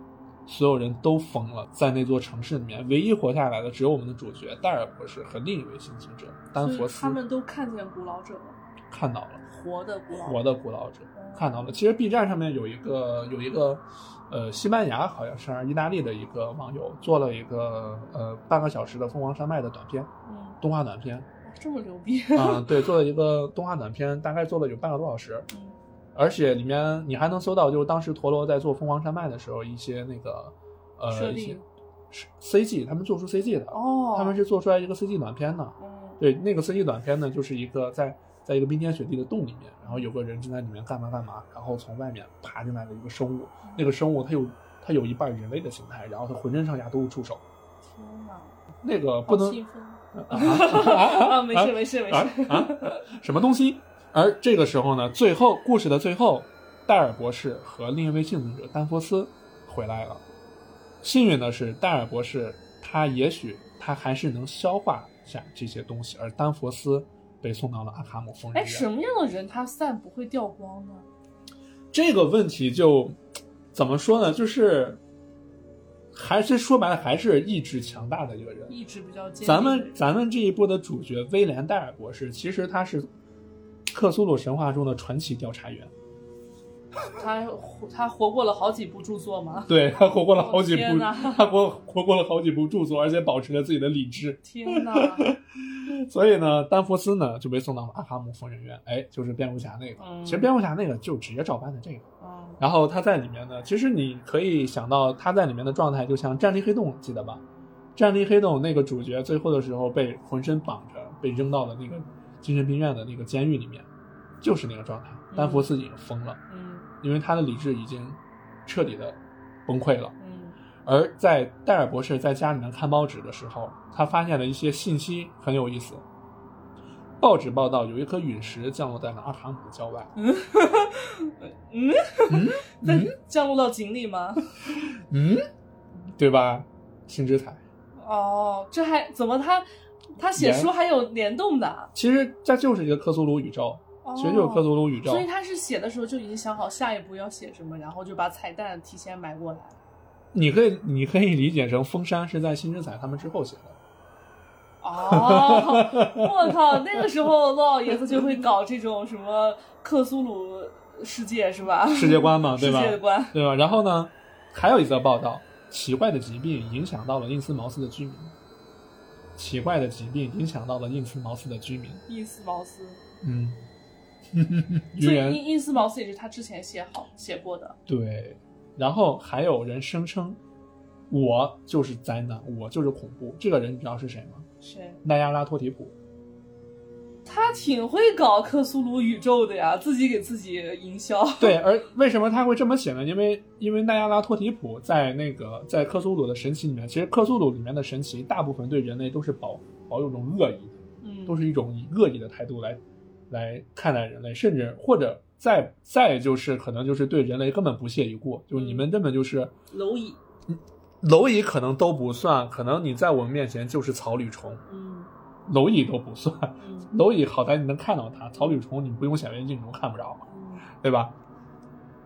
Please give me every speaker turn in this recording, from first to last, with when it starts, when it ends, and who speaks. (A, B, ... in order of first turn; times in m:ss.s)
0:00.4-0:07.2 A
0:06.6-0:08.6 B
0:08.9-0:09.4 A
0:09.5-0:10.4 B
0:10.1-0:20.1 A
0:11.1-0:11.8 B
0:20.2-0:20.6 B
0:20.6-0:21.3 A
0:21.4-0:22.9 B
0:22.3-0:25.5 A
0:25.5-0:25.8 B
0:26.1-0:47.4 A
0:31.1-0:31.6 B
0:33.7-0:34.4 B
0:35.8-0:36.2 B
0:47.8-0:48.6 B
0:48.8-0:49.6 A
0:49.2-0:53.0 B
0:50.1-1:00.2 A
1:01.0-1:08.9 A
1:08.5-1:11.0 B
1:11.9-1:13.2 A
1:13.7-1:15.0 A
1:16.1-1:18.8 A
1:18.7-1:20.0 B
1:19.4-1:23.1 A
1:23.9-1:25.9 A
1:27.1-1:31.4 B
1:29.7-1:42.0 A
1:34.4-1:35.3 B
1:40.0-1:40.5 B
1:42.2-1:42.6 B
1:42.6-1:47.4 A
1:48.0-1:53.8 A
1:54.4-1:56.4 A
1:55.3-1:55.7 B
1:56.5-1:56.9 B
1:57.0-2:00.1 A
2:00.2-2:00.6 B
2:00.8-2:06.0 A
2:07.2-2:10.1 A
2:10.2-2:14.4 B
2:12.3-2:13.1 A
2:15.1-2:15.4 A
2:16.2-2:17.6 A
2:18.0-2:19.6 B
2:20.2-2:21.9 B
2:20.4-2:20.7 A
2:21.9-2:25.2 A
2:24.0-2:29.8 B
2:30.3-2:33.8 A
2:34.8-2:43.4 B
2:35.1-2:36.7 A
2:41.9-2:48.3 A
2:49.4-2:52.0 A
2:52.1-2:53.0 B
2:53.2-2:53.6 A
2:54.3-2:55.4 A
2:55.0-2:57.8 B
2:57.9-3:00.4 A
3:01.1-3:04.5 A
3:04.6-3:05.0 B
3:05.0-3:05.9 A
3:07.2-3:11.6 B
3:11.4-3:29.5 A
3:21.0-3:21.4 B
3:28.5-3:28.9 B
3:29.7-3:30.2 B
3:30.5-3:34.6 A
3:34.7-3:35.1 B
3:35.5-3:40.2 A
3:36.6-3:36.9 B
3:40.3-3:40.7 B
3:40.8-3:41.1 A